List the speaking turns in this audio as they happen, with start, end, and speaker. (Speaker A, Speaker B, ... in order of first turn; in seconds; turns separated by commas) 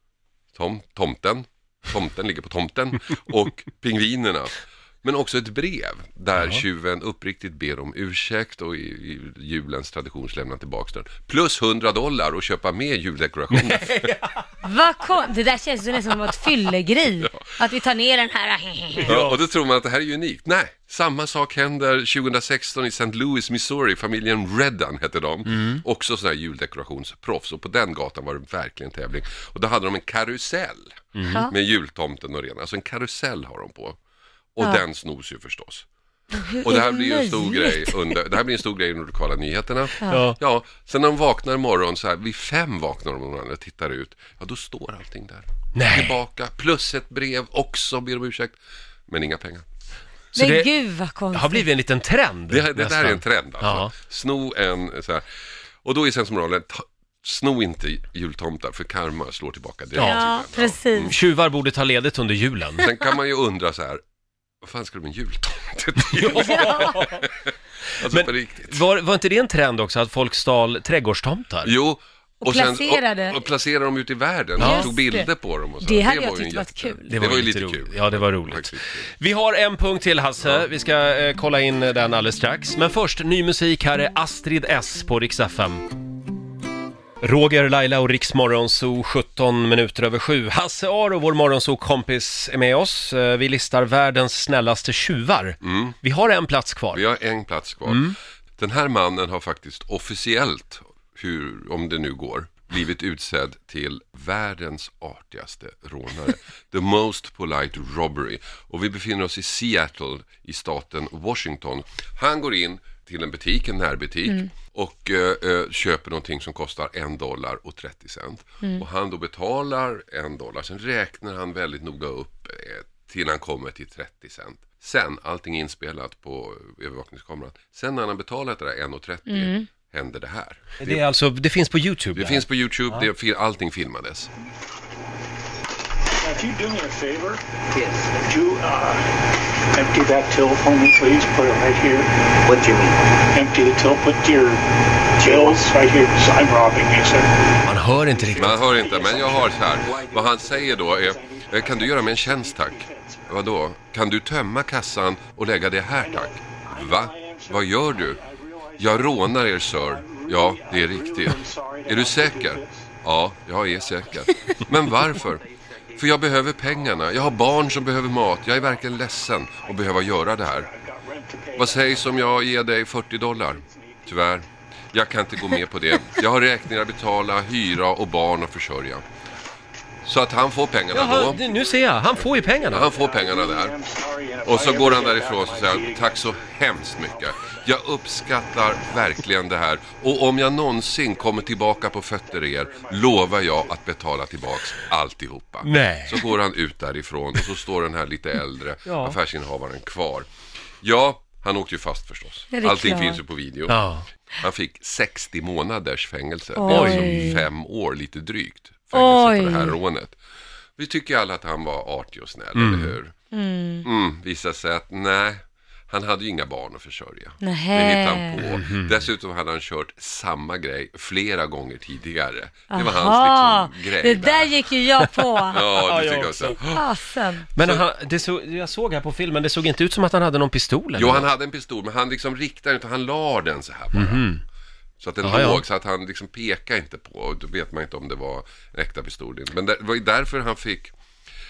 Speaker A: 0.5-14.1, Speaker B: 6.4-6.6, Speaker B: 13.5-14.4, Speaker C: 14.6-19.1, Speaker B: 19.0-19.4, Speaker A: 19.1-34.0, Speaker B: 25.5-25.8, Speaker B: 31.1-31.5, Speaker C: 31.3-31.5, Speaker A: 34.6-35.9, Speaker C: 36.4-38.2, Speaker A: 36.5-48.6, Speaker B: 40.1-40.4, Speaker B: 45.8-46.2, Speaker A: 49.1-49.6, Speaker B: 50.4-50.7, Speaker C: 50.4-51.7, Speaker B: 51.3-53.9, Speaker A: 52.5-55.2, Speaker A: 55.8-61.2, Speaker B: 60.0-60.2, Speaker C: 60.0-61.2, Speaker B: 61.0-62.9, Speaker A: 62.8-64.0, Speaker A: 64.6-68.8, Speaker B: 66.2-67.2, Speaker C: 66.3-67.1, Speaker B: 68.1-71.7, Speaker A: 71.6-79.1, Speaker C: 72.4-73.4, Speaker B: 74.6-74.9, Speaker C: 74.6-75.3, Speaker C: 75.8-77.2, Speaker B: 77.1-85.9, Speaker A: 80.4-80.7, Speaker B: 87.2-97.0, Speaker A: 95.6-96.0, Speaker A: 96.9-131.1, Speaker B: 97.9-98.2, Speaker C: 129.3-129.7, Speaker B: 130.8-133.1, Speaker A: 132.2-134.3, Speaker D: 136.2-137.4, Speaker E: 137.7-138.1, Speaker D: 138.2-139.1, Speaker D: 139.7-142.1, Speaker E: 142.4-143.1, Speaker D: 143.3-144.7, Speaker D: 145.2-147.5, Speaker E: 145.2-145.6, Speaker B: 147.6-148.6, Speaker D: 148.1-149.9, Speaker A: 148.4-158.2, Speaker E: 149.7-150.7, Speaker D: 150.6-153.3, Speaker D: 156.0-162.9, Speaker A: 158.8-165.4, Speaker D: 163.6-164.7, Speaker E: 165.1-167.0, Speaker A: 166.0-170.7, Speaker D: 167.4-167.7, Speaker D: 168.5-172.6, Speaker A: 171.6-179.0, Speaker D: 173.4-174.2, Speaker A: 180.0-181.4, Speaker B: 180.9-182.9, Speaker D: 181.0-187.7, Speaker A: 182.7-183.8, Speaker A: 184.4-200.3, Speaker D: 191.1-193.8, Speaker B: 195.6-196.3, Speaker B: 198.9-199.2, Speaker A: 200.8-203.8, Speaker C: 202.5-203.2, Speaker B: 203.7-204.1, Speaker A: 204.4-210.2, Speaker C: 206.6-207.4, Speaker B: 206.7-207.4, Speaker C: 208.9-209.8, Speaker A: 210.8-213.1, Speaker B: 212.6-212.9, Speaker C: 213.3-213.9, Speaker A: 213.8-224.7, Speaker C: 217.4-218.4, Speaker B: 218.4-219.0, Speaker C: 222.7-225.6, Speaker A: 225.5-226.9, Speaker B: 225.7-226.6, Speaker C: 226.7-227.5, Speaker B: 227.6-231.3, Speaker A: 227.6-227.8, Speaker A: 231.0-234.3, Speaker B: 233.9-234.4, Speaker A: 235.0-240.9, Speaker B: 235.2-235.6